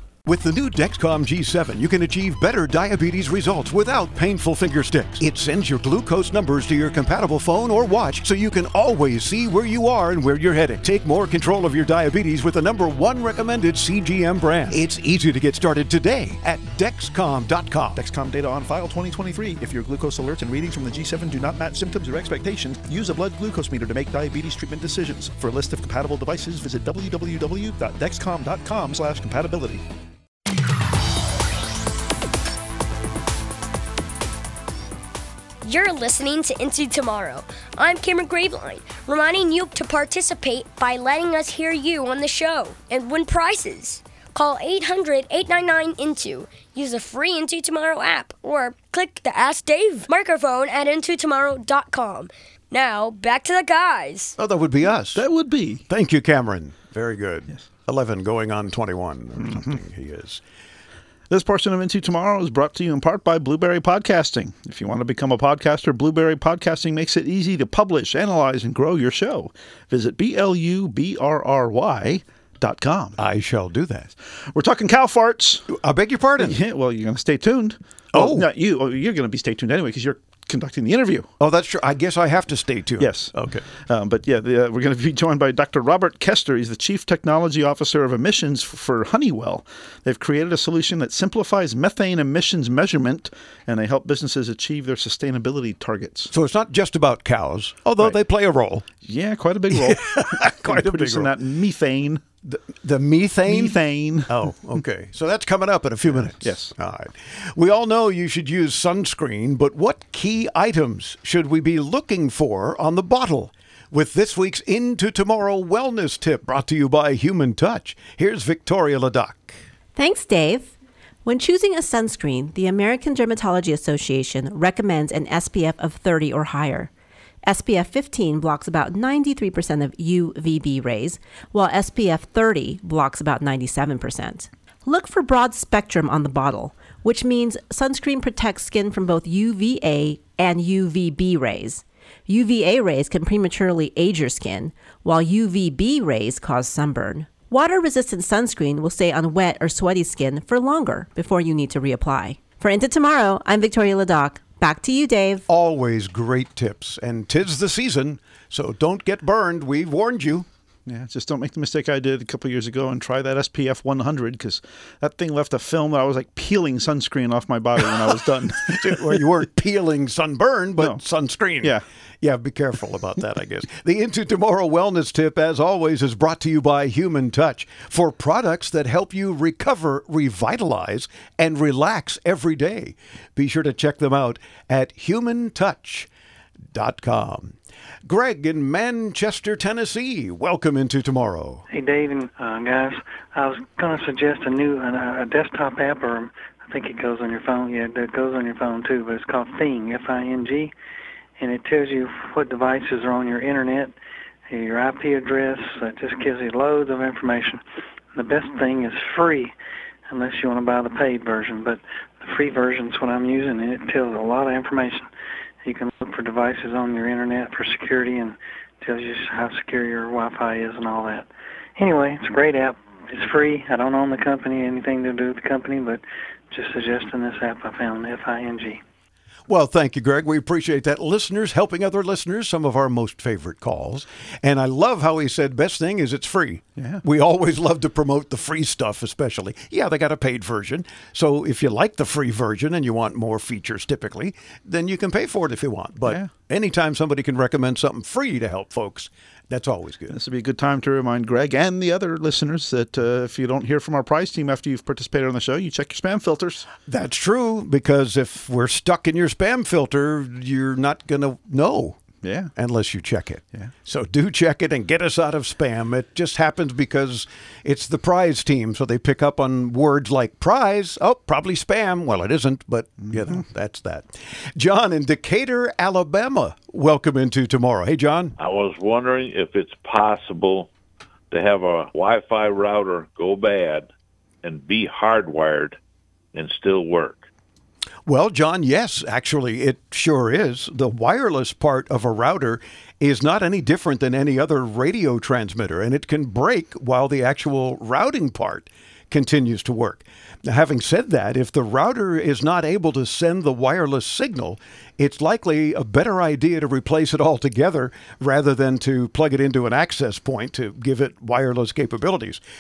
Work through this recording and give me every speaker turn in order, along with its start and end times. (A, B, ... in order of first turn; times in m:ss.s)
0:00.2-0:18.0 A
0:18.0-0:29.8 B
0:35.6-0:54.3 C
0:54.4-0:55.2 A
0:55.1-0:55.8 B
0:55.9-1:00.4 A
0:59.4-0:59.8 B
1:01.3-1:13.2 B
1:13.2-1:14.1 A
1:14.4-1:15.7 B
1:15.7-1:16.6 A
1:16.4-1:21.3 B
1:18.1-1:18.5 A
1:21.4-1:23.7 A
1:23.0-1:36.3 B
1:36.3-1:38.8 A
1:39.0-1:42.2 B
1:39.7-1:41.3 A
1:42.4-1:43.8 A
1:43.4-1:44.4 B
1:44.3-1:59.6 A
1:46.1-1:46.7 B
2:00.0-2:06.9 D
2:07.4-2:35.4 D
2:35.5-2:40.5 A
2:40.8-2:49.2 B
2:48.6-3:06.1 A
3:06.7-3:11.6 A
3:11.7-3:20.7 E
3:21.4-3:23.9 E
3:24.5-3:27.6 E
3:28.1-3:29.5 E
3:30.1-3:35.1 E
3:35.6-3:48.8 E
3:49.5-4:10.2 A
3:56.8-3:57.0 B
4:10.1-4:16.7 B
4:16.9-4:22.0 A
4:22.2-4:22.5 B
4:22.5-4:38.3 A
4:33.0-4:33.4 B
4:38.4-4:40.7 F
4:41.3-4:43.9 F
4:44.4-4:45.8 F
4:46.3-4:47.2 F
4:48.0-5:12.4 A